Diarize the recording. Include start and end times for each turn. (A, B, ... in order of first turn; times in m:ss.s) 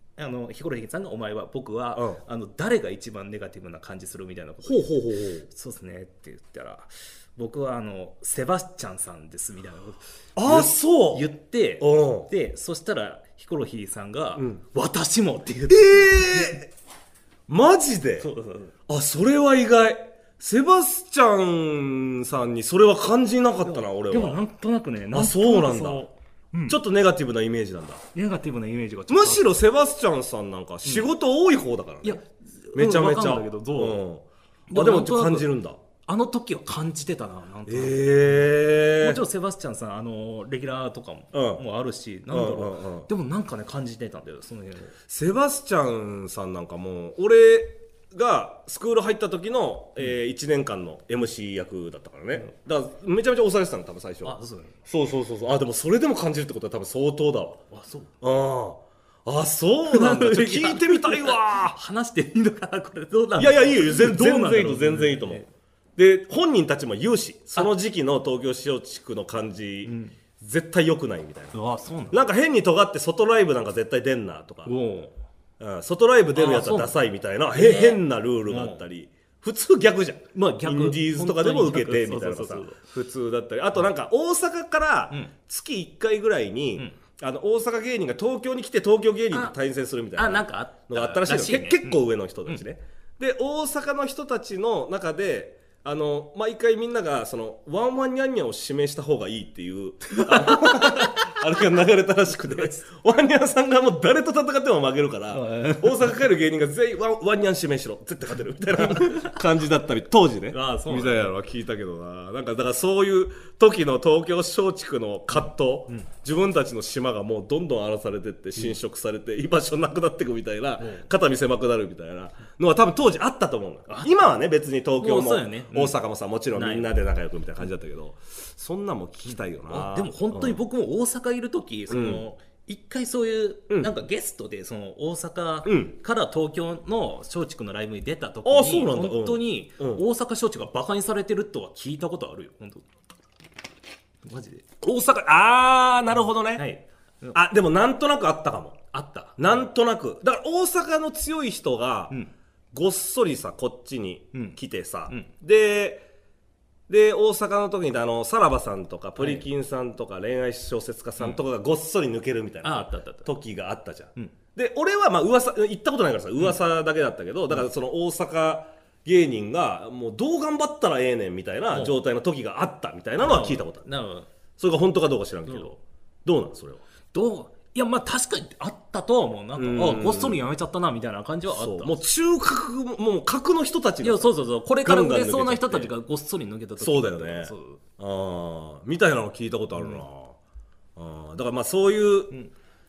0:00.2-0:04.9 A
0:01.9-0:02.2 B
0:04.6-0:05.5 B
0:05.4-0:16.6 A
0:10.4-0:11.2 B
0:11.8-0:12.3 B
0:15.7-0:16.7 B
0:17.5-0:18.3 B
0:18.2-0:18.7 A
0:18.9-0:24.4 B
0:23.6-0:26.8 A
0:25.1-0:26.0 B
0:26.7-0:28.0 B
0:28.1-0:29.6 A
0:29.1-0:32.2 B
0:32.0-0:34.0 A
0:32.7-0:35.8 B
0:34.7-0:35.5 A
0:36.0-0:44.9 A
0:37.7-0:39.2 B
0:41.3-0:41.6 B
0:42.3-0:43.1 B
0:45.1-0:54.4 B
0:54.2-0:54.8 A
0:54.9-0:57.6 B
0:57.7-0:58.1 A
0:58.2-1:01.8 B
0:59.9-1:05.5 A
1:03.4-1:05.4 B
1:06.0-1:11.5 B
1:09.8-1:10.2 A
1:11.5-1:12.2 A
1:12.1-1:14.7 B
1:14.6-1:15.1 A
1:15.6-2:10.6 B
1:16.3-1:17.0 A
1:17.5-1:18.8 A
1:20.3-1:22.8 A
1:30.2-1:32.6 A
1:40.1-1:41.3 A
1:42.4-1:42.8 A
1:45.3-1:46.1 A
1:48.8-1:49.4 A
1:50.5-1:51.3 A
2:00.8-2:01.1 A
2:03.9-2:04.3 A
2:05.0-2:06.0 A
2:06.5-2:06.9 A
2:09.3-2:22.8 A
2:11.9-2:12.2 B
2:15.6-2:15.9 B
2:18.4-2:20.0 B
2:24.2-2:24.7 A
2:24.8-2:26.6 B
2:26.5-2:27.4 A
2:27.3-2:28.8 B
2:28.9-2:29.6 A
2:29.4-2:32.2 B
2:32.7-2:36.1 B
2:34.3-2:35.3 A
2:36.9-2:53.8 B
2:39.2-2:39.4 A
2:42.6-2:43.3 A
2:51.7-2:52.0 A
2:53.2-2:54.3 A
2:54.6-2:56.8 B
2:57.1-3:02.0 A
2:59.6-3:00.4 B
3:01.5-3:05.9 B
3:04.0-3:07.8 A
3:06.8-3:10.4 B
3:11.0-3:12.3 B